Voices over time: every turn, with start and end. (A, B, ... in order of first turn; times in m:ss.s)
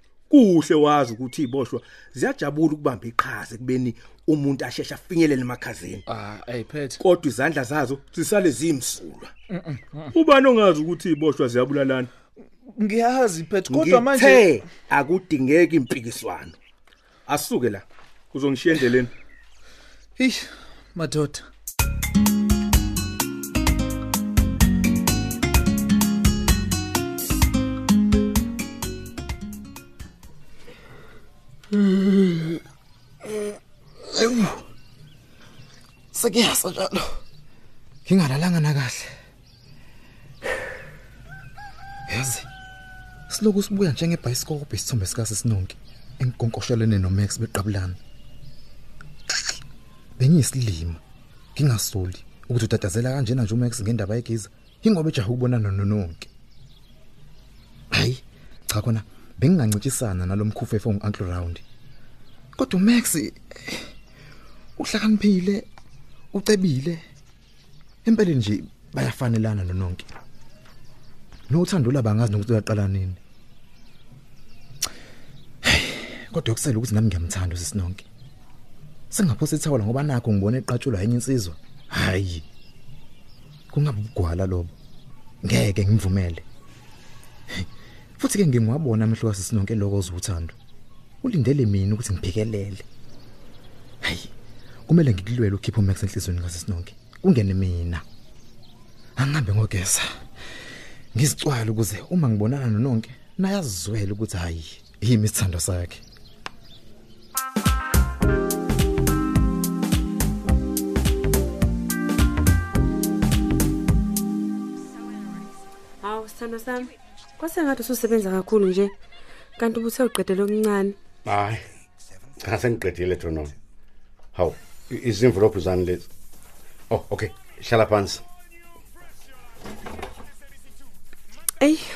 0:00.3-0:05.9 A
0:06.1-0:07.0 B
0:07.0-0:09.2 A
0:09.5-0:10.1 B
0:10.2-0:12.1 A
0:12.7-0:14.7 B
0:13.7-0:16.5 A
0:17.3-0:19.1 A
0:20.2-0:21.5 B
0:31.8-0:32.5 C
0:34.1-0:34.6 C
0:36.1-0:37.2 C
0:38.0-0:39.1 C
0:42.1-0:42.5 C
0:43.3-0:48.0 C
0:50.2-0:51.0 C
0:51.5-0:56.3 C
0:57.9-1:01.6 C
1:02.6-1:03.9 C
1:04.8-1:05.7 C
1:06.3-1:07.0 C
1:08.0-1:10.1 C
1:11.5-1:13.2 C
1:15.6-1:18.0 C
1:19.1-1:22.4 C
1:23.7-1:24.7 C
1:25.4-1:26.4 C
1:28.2-1:30.6 C
1:31.2-1:32.8 C
1:34.0-1:34.3 C
1:34.9-1:38.0 C
1:39.2-1:40.2 C
1:41.1-1:46.0 C
1:56.0-1:58.9 D
1:59.6-2:00.9 D
2:01.2-2:01.6 E
2:02.4-2:03.5 E
2:04.3-2:06.1 E
2:06.9-2:08.2 E